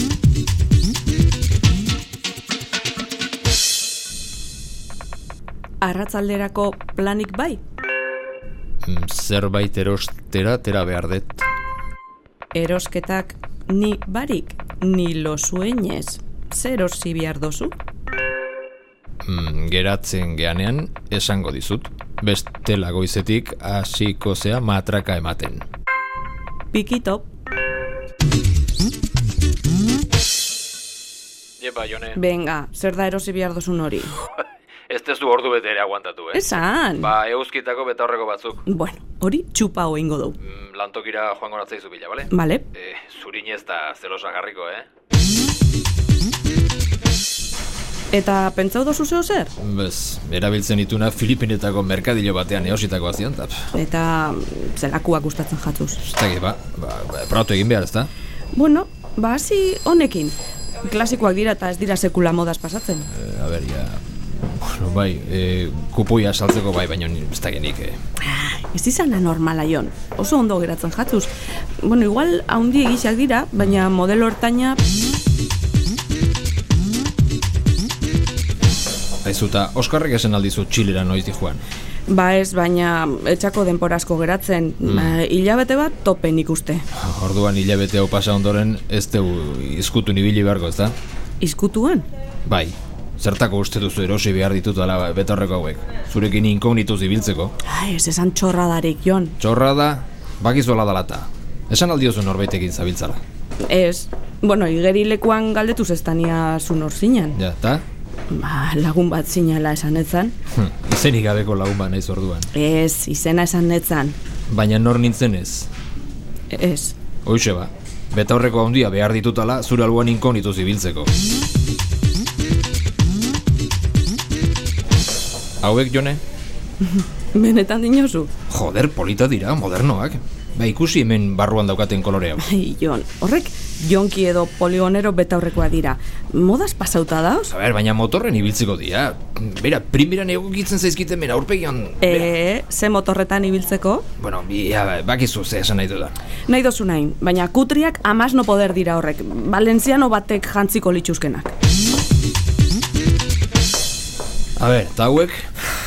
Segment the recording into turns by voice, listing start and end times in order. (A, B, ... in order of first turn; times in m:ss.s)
0:05.8-0:07.6 A
0:08.8-0:11.5 B
0:12.5-0:17.8 A
0:19.2-0:25.6 B
0:26.7-0:27.3 A
0:31.6-0:32.2 B
0:32.2-0:34.1 A
0:34.9-0:38.7 B
0:36.3-0:37.1 A
0:38.7-0:40.4 A
0:40.4-0:44.9 B
0:42.3-0:42.7 A
0:48.1-0:49.5 A
0:49.6-0:53.7 B
0:53.7-0:56.0 A
0:56.0-0:58.1 B
0:58.5-1:03.1 A
1:03.1-1:08.0 B
1:08.2-1:14.8 A
1:19.2-1:21.6 B
1:22.1-1:26.8 A
1:24.8-1:25.2 B
1:26.9-1:31.0 B
1:31.4-1:32.1 A
1:32.5-1:37.6 B
1:37.6-1:39.4 A
1:39.4-1:43.2 B
1:43.6-1:47.4 A
1:47.4-1:47.8 B
1:48.3-1:50.4 A
1:50.5-1:52.5 B
1:52.5-1:54.2 A
1:54.5-1:55.7 B
1:56.5-1:57.0 A
1:57.2-2:01.1 B
2:05.6-2:06.2 B
2:06.9-2:08.3 A
2:08.5-2:12.4 B
2:12.4-2:17.5 A
2:17.5-2:22.3 B
2:22.0-2:24.1 A
2:24.2-2:26.2 B
2:26.5-2:31.6 A
2:34.6-2:35.5 B